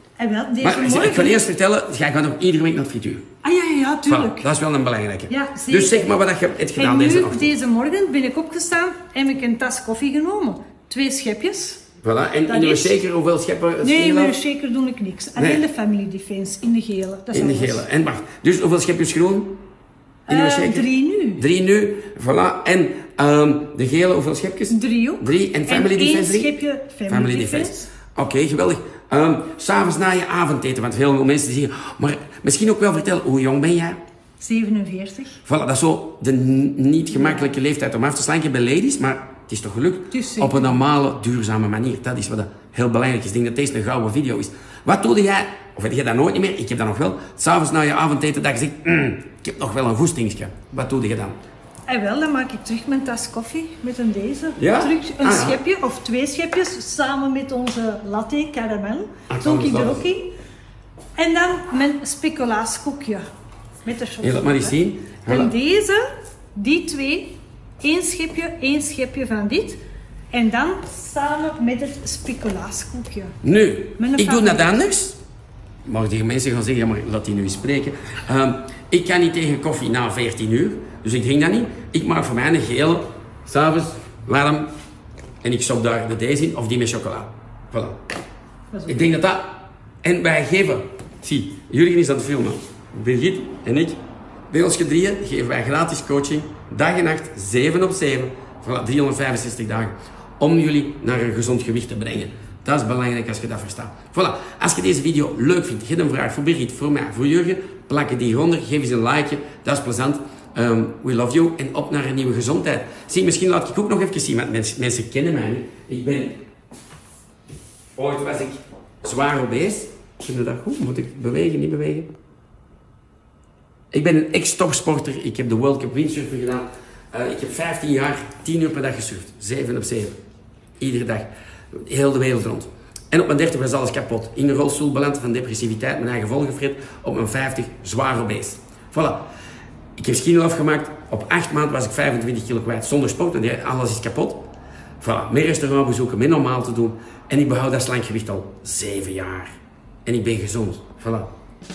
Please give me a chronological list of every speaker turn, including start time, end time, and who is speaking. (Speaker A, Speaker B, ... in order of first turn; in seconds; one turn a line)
Speaker A: 0.2-1.4
Speaker B: 0.6-3.2
Speaker A: 3.4-4.5
Speaker B: 4.1-7.5
Speaker A: 5.3-6.1
Speaker A: 6.8-11.8
Speaker B: 12.0-14.3
Speaker A: 12.5-13.0
Speaker A: 13.8-17.8
Speaker B: 15.3-15.6
Speaker B: 17.3-19.6
Speaker A: 20.3-21.4
Speaker B: 20.3-26.5
Speaker A: 24.7-27.9
Speaker B: 27.1-34.0
Speaker A: 34.4-35.4
Speaker B: 35.5-51.4
Speaker A: 40.1-40.8
Speaker A: 51.9-60.3
Speaker B: 54.6-55.6
Speaker B: 59.3-60.1
Speaker A: 61.2-63.2
Speaker A: 63.8-66.0
Speaker B: 64.2-65.5
Speaker A: 66.5-69.8
Speaker A: 70.3-73.3
Speaker B: 73.4-75.2
Speaker A: 74.0-74.8
Speaker B: 75.8-84.7
Speaker B: 85.4-88.0
Speaker A: 88.7-89.2
Speaker B: 88.9-116.4
Speaker B: 117.9-122.1
Speaker B: 123.9-130.2
Speaker B: 130.8-139.2
Speaker B: 140.0-149.5
Speaker B: 150.0-151.3